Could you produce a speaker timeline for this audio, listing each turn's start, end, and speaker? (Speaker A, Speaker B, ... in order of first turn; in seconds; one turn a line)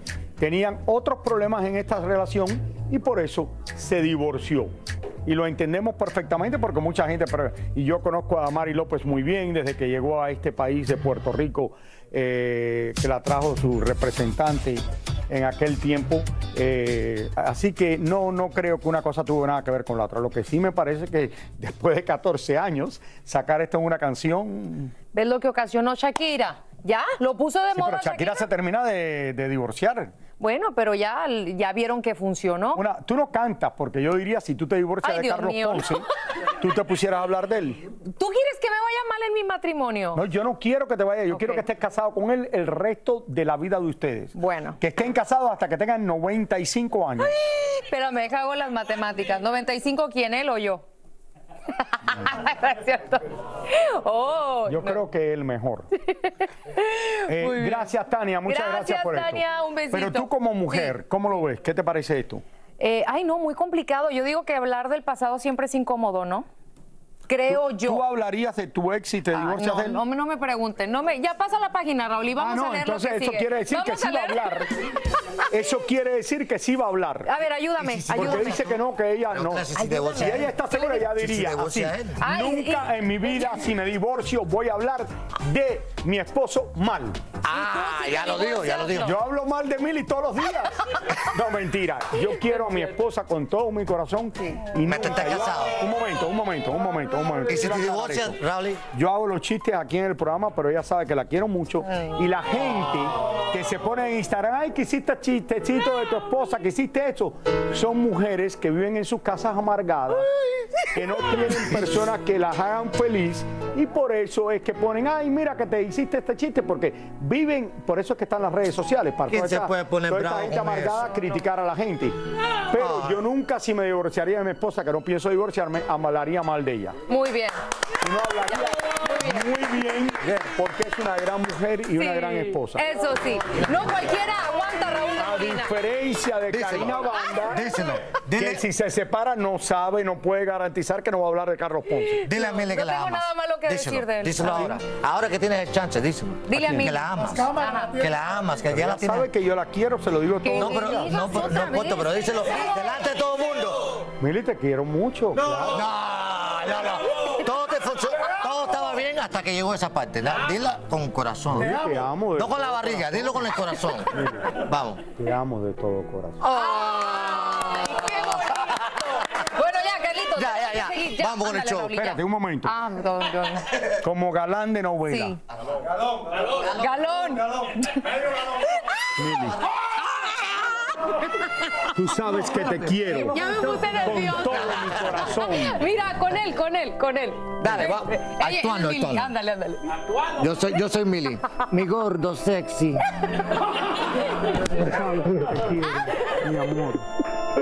Speaker A: 0.4-4.7
Speaker A: 5.2-24.9
Speaker B: 25.1-28.5
Speaker A: 27.7-30.1
Speaker B: 30.4-32.8
Speaker A: 32.7-37.8
Speaker B: 35.0-36.0
Speaker B: 38.1-40.2
Speaker A: 40.1-47.3
Speaker B: 41.3-41.6
Speaker B: 44.3-44.8
Speaker B: 47.2-50.8
Speaker B: 51.7-55.0
Speaker A: 54.7-55.9
Speaker B: 56.0-57.9
Speaker A: 57.2-62.4
Speaker B: 58.5-60.9
Speaker B: 62.8-66.5
Speaker B: 67.3-68.0
Speaker A: 67.5-70.0
Speaker B: 69.3-74.7
Speaker A: 72.4-74.7
Speaker A: 75.4-77.3
Speaker B: 77.2-78.8
Speaker C: 77.8-78.8
Speaker A: 78.1-87.3
Speaker C: 79.3-82.2
Speaker B: 79.7-80.5
Speaker B: 82.2-83.6
Speaker C: 87.4-89.1
Speaker B: 87.5-89.1
Speaker A: 88.9-98.4
Speaker C: 94.8-95.8
Speaker C: 97.5-98.8
Speaker A: 98.9-127.0
Speaker C: 119.3-121.1
Speaker C: 122.7-123.2
Speaker B: 127.1-127.6
Speaker A: 128.0-132.8
Speaker B: 128.4-129.6
Speaker B: 132.0-135.7
Speaker A: 135.2-137.8
Speaker C: 136.5-138.6
Speaker A: 138.3-142.2
Speaker B: 142.2-144.8
Speaker C: 142.2-149.3
Speaker B: 146.5-148.1
Speaker A: 146.6-146.9
Speaker A: 148.7-151.2
Speaker B: 150.4-152.7
Speaker C: 150.6-153.9
Speaker A: 154.2-155.8
Speaker C: 155.6-165.0
Speaker A: 161.5-164.6
Speaker A: 165.1-166.5
Speaker B: 166.4-173.7
Speaker C: 166.5-167.9
Speaker C: 170.3-172.2
Speaker A: 172.0-172.7
Speaker A: 174.0-175.4
Speaker B: 175.1-175.4
Speaker B: 176.4-179.5
Speaker A: 179.2-179.6
Speaker B: 180.0-181.9
Speaker A: 181.9-185.8
Speaker B: 183.1-190.0
Speaker C: 187.6-189.3
Speaker C: 190.4-193.0
Speaker A: 194.6-197.1